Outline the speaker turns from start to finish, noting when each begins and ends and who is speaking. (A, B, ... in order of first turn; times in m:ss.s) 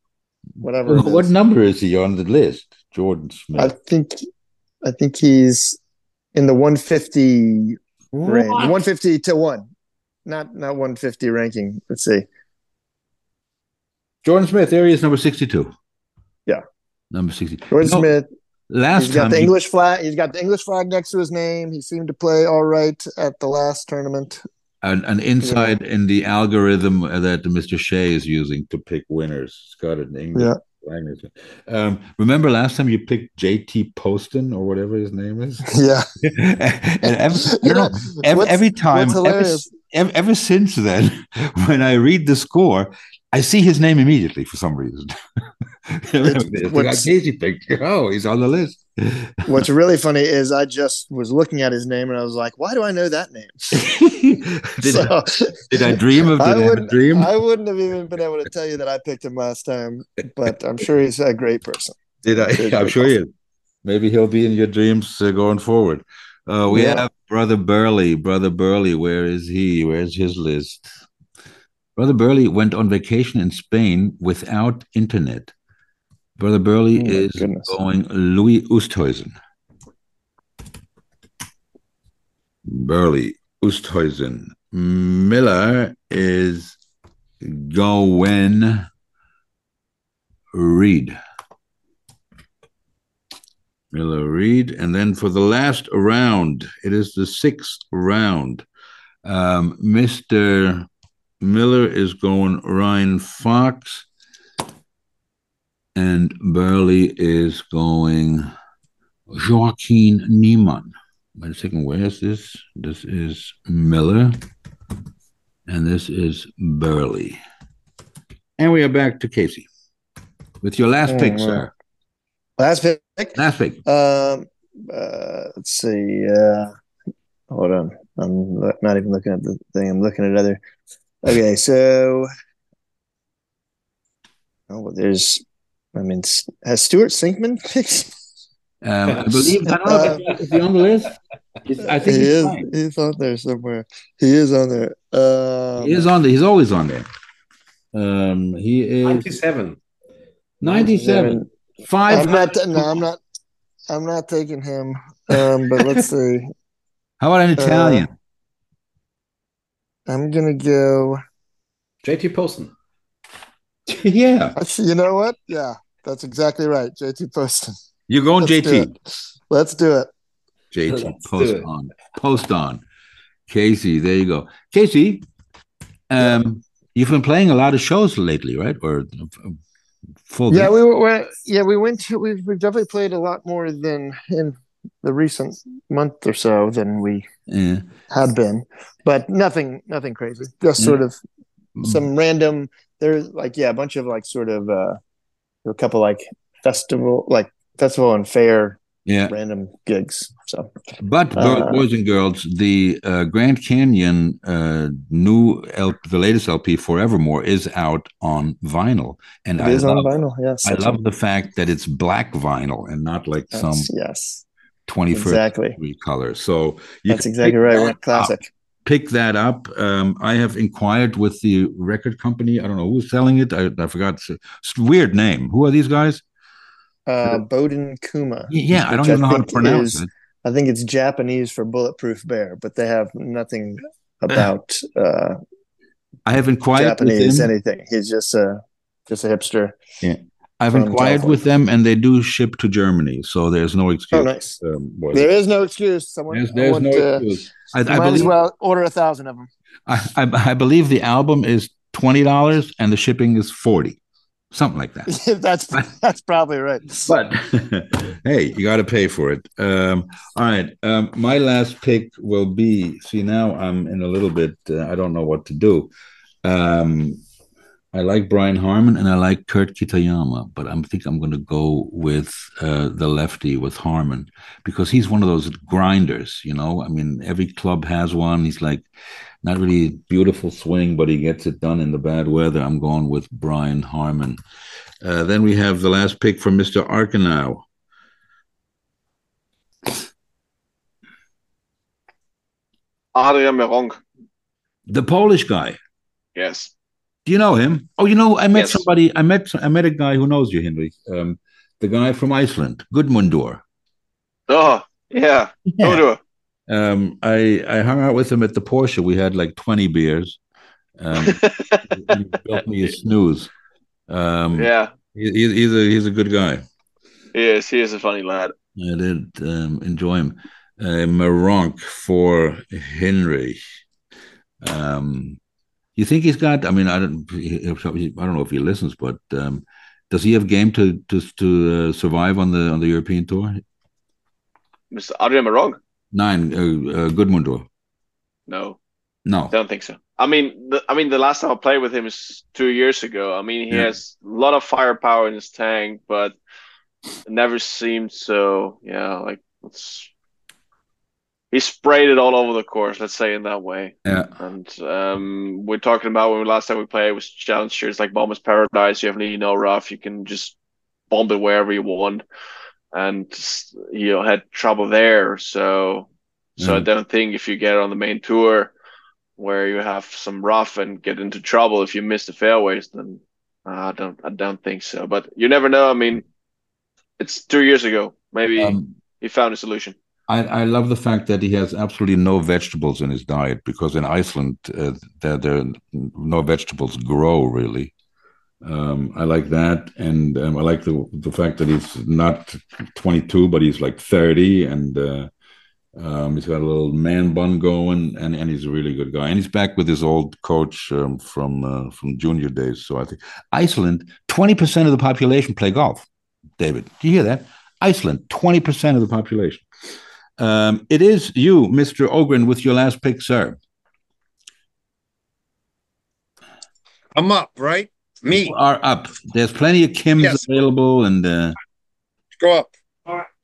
0:00.6-0:01.3 A
0:00.8-0:03.7 B
0:03.6-0:04.2 A
0:04.8-0:05.8 A
0:06.3-0:09.7 A
0:08.2-0:08.8 C
0:10.2-0:12.3 A
0:14.2-0:15.7 B
0:17.1-0:18.1 B
0:17.7-0:18.3 A
0:18.7-0:19.5 B
0:19.0-0:24.4 A
0:24.8-0:35.7 B
0:25.4-0:25.8 A
0:35.7-0:36.1 A
0:36.2-0:45.1 B
0:37.0-0:39.7 A
0:45.9-0:49.6 B
0:46.2-0:47.1 A
0:49.5-0:53.8 A
0:53.7-0:57.3 B
0:54.8-1:02.0 A
1:02.2-1:03.3 B
1:02.5-1:03.1 A
1:03.8-1:10.9 B
1:06.7-1:07.1 A
1:12.0-1:15.5 B
1:16.4-1:19.4 B
1:17.0-1:17.7 A
1:22.6-1:26.8 B
1:27.4-1:28.9 B
1:30.5-1:31.2 B
1:33.9-1:38.6 B
1:39.2-1:40.9 B
1:41.4-1:44.1 B
1:45.9-1:48.5 B
1:49.3-1:54.4 B
1:55.7-1:57.4 B
1:58.6-1:59.7 B
2:00.6-2:01.7 B
2:01.1-2:01.6 A
2:02.6-2:06.7 A
2:03.3-2:03.8 B
2:07.5-2:10.6 A
2:11.2-2:12.3 A
2:14.7-2:15.4 A
2:15.9-2:18.1 A
2:18.8-2:21.1 B
2:19.1-2:20.6 C
2:19.8-2:20.2 A
2:21.6-2:22.7 B
2:22.0-2:26.0 A
2:25.8-2:27.1 B
2:27.9-2:29.4 B
2:29.0-2:29.8 C
2:30.6-2:32.8 B
2:30.6-2:31.5 A
2:32.1-2:33.2 A
2:33.9-2:36.5 A
2:37.2-2:38.1 B
2:37.6-2:38.1 A
2:40.1-2:41.2 A
2:42.0-2:42.7 C
2:43.9-2:44.6 B
2:44.6-2:47.7 A
2:48.1-2:49.0 B
2:48.4-2:48.9 A
2:49.5-2:50.1 A
2:50.7-2:52.8 B
2:50.9-2:51.7 C
2:53.5-2:55.2 B
2:56.1-2:59.6 B
3:00.3-3:00.7 B
3:00.5-3:07.2 A
3:07.5-3:07.9 B
3:08.1-3:11.2 A
3:11.8-3:12.0 B
3:11.8-3:15.0 A
3:15.6-3:20.7 A
3:19.0-3:19.3 B
3:21.0-3:30.1 B
3:21.4-3:21.8 A
3:29.6-3:31.0 A
3:30.6-3:33.9 B
3:33.5-3:34.4 A
3:34.9-3:46.2 B
3:35.1-3:35.8 A
3:37.1-3:38.5 A
3:47.1-3:55.4 A
3:48.5-3:50.1 B
3:56.2-3:57.5 B
3:56.8-3:59.8 A
4:00.0-4:05.3 B
4:00.7-4:01.4 A
4:04.1-4:04.6 A
4:05.1-4:07.2 A
4:06.3-4:08.3 B
4:07.9-4:09.5 A
4:09.9-4:14.0 B
4:14.5-4:15.1 B
4:15.1-4:17.1 A
4:16.9-4:25.9 B
4:26.4-4:27.2 B
4:27.9-4:38.8 B
4:39.4-4:44.4 B
4:45.0-4:47.6 B
4:53.1-4:54.0 D
4:54.9-4:55.8 B
4:56.4-4:56.7 D
4:57.2-5:03.6 B
4:58.5-4:58.8 D
5:04.5-5:06.2 D
5:05.7-5:06.0 B
5:06.7-5:10.4 B
5:11.0-5:13.5 B
5:11.2-5:11.8 D
5:14.1-5:16.6 B
5:14.5-5:14.9 D
5:17.3-5:18.5 D
5:18.8-5:23.6 B
5:24.6-5:25.4 B
5:26.0-5:33.6 B
5:34.9-5:35.8 D
5:36.1-5:37.6 B
5:38.5-5:38.8 D
5:39.2-5:39.5 B
5:39.5-5:46.3 D
5:47.2-5:50.1 D
5:51.5-6:00.6 D
5:54.0-5:54.3 B
6:01.1-6:02.2 D
6:02.9-6:08.7 D
6:06.6-6:06.9 B
6:09.4-6:16.2 D
6:17.2-6:19.9 D
6:18.6-6:18.9 B
6:20.3-6:27.9 B
6:28.6-6:35.3 B
6:35.9-6:49.6 B
6:50.4-6:53.6 B
6:57.1-6:58.5 E
6:58.3-7:01.6 B
7:02.4-7:03.2 E